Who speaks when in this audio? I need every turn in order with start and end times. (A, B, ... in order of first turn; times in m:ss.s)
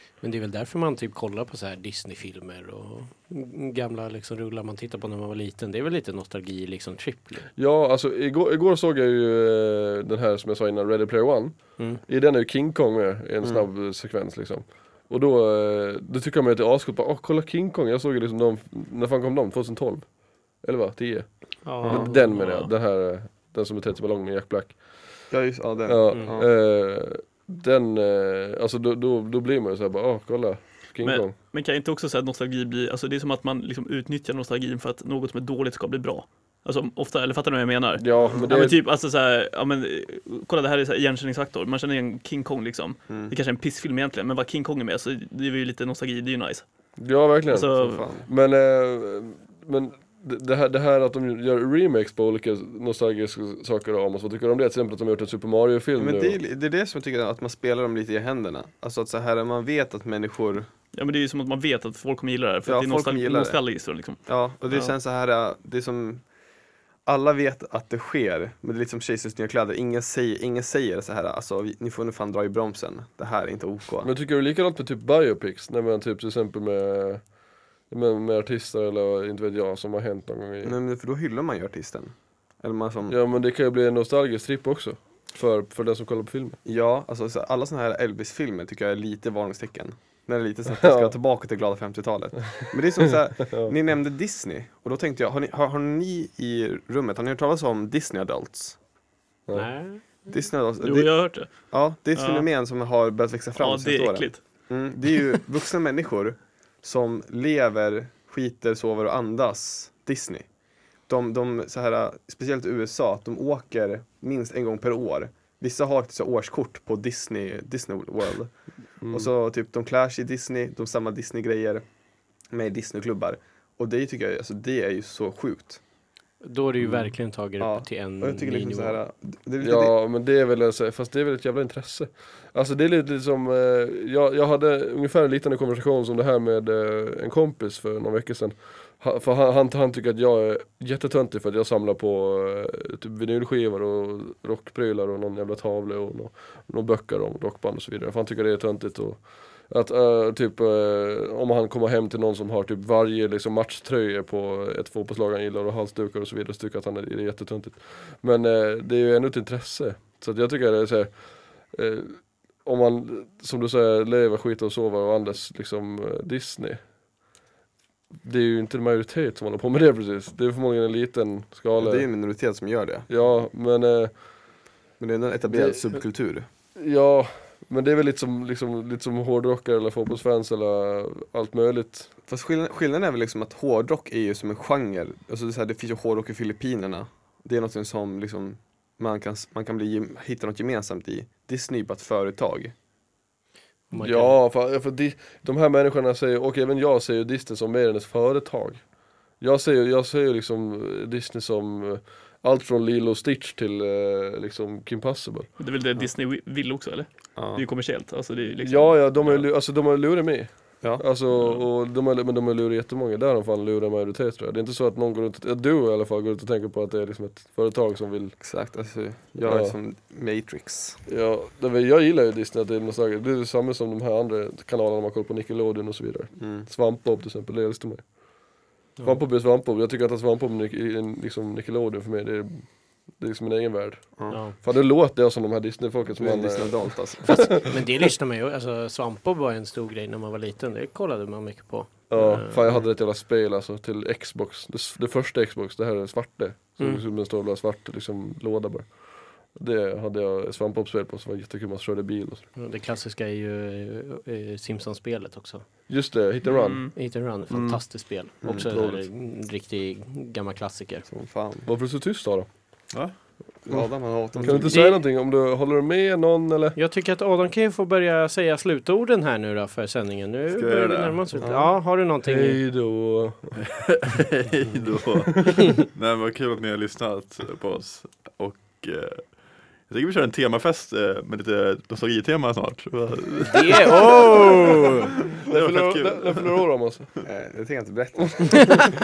0:00.2-0:07.5 A
0:07.6-0:25.2 B
0:13.4-0:13.7 C
0:21.6-0:22.7 D
0:21.8-0:22.2 C
0:25.3-0:26.5 C
0:25.8-0:31.3 B
0:31.0-0:46.6 D
0:38.0-0:38.8 B
0:43.1-0:43.3 C
0:47.0-0:47.7 B
0:47.5-0:48.0 D
0:47.8-0:48.3 C
0:48.2-0:56.4 B
0:56.0-1:00.7 C
1:00.9-1:04.9 D
1:02.6-1:03.6 C
1:04.2-1:06.2 C
1:07.0-1:14.1 C
1:14.0-1:17.2 B
1:17.9-1:20.7 B
1:20.6-1:23.2 C
1:23.1-1:26.6 B
1:26.6-1:38.8 C
1:30.8-1:31.1 B
1:39.5-1:40.0 A
1:40.2-1:50.5 C
1:40.8-1:42.5 D
1:43.6-1:44.4 D
1:51.1-1:58.5 C
1:59.0-1:59.3 B
1:59.1-2:01.8 C
2:02.5-2:05.8 C
2:06.4-2:09.0 A
2:07.6-2:09.9 C
2:09.6-2:46.8 B
2:48.2-2:52.1 B
2:51.7-2:53.1 C
2:53.1-2:54.2 B
2:55.0-2:56.4 C
2:55.5-2:56.0 B
2:56.8-3:02.1 B
3:02.3-3:12.7 C
3:13.9-3:14.4 A
3:14.0-3:18.8 B
3:19.4-3:25.5 B
3:25.6-3:29.5 D
3:27.4-3:27.6 C
3:28.6-3:38.4 B
3:31.3-3:31.6 D
3:38.4-3:41.0 C
3:39.4-3:39.7 B
3:41.1-3:48.2 B
3:46.4-3:46.7 C
3:49.0-3:57.5 B
3:54.3-3:54.6 A
3:56.2-3:57.7 C
3:57.3-4:02.6 A
4:02.1-4:12.5 B
4:02.6-4:02.9 C
4:12.6-4:15.6 A
4:15.9-4:16.9 B
4:16.4-4:16.9 D
4:16.9-4:21.1 A
4:17.5-4:17.8 B
4:18.4-4:19.0 B
4:21.1-4:21.7 C
4:21.6-4:22.5 B
4:22.9-4:23.2 E
4:23.6-4:24.8 C
4:24.4-4:26.8 B
4:24.6-4:25.0 A
4:26.8-4:32.6 A
4:30.5-4:31.4 E
4:31.4-4:31.8 C
4:32.2-4:33.6 B
4:33.7-4:46.6 E
4:35.4-4:35.8 B
4:43.4-4:45.1 A
4:45.4-4:47.1 B
4:47.2-4:48.9 C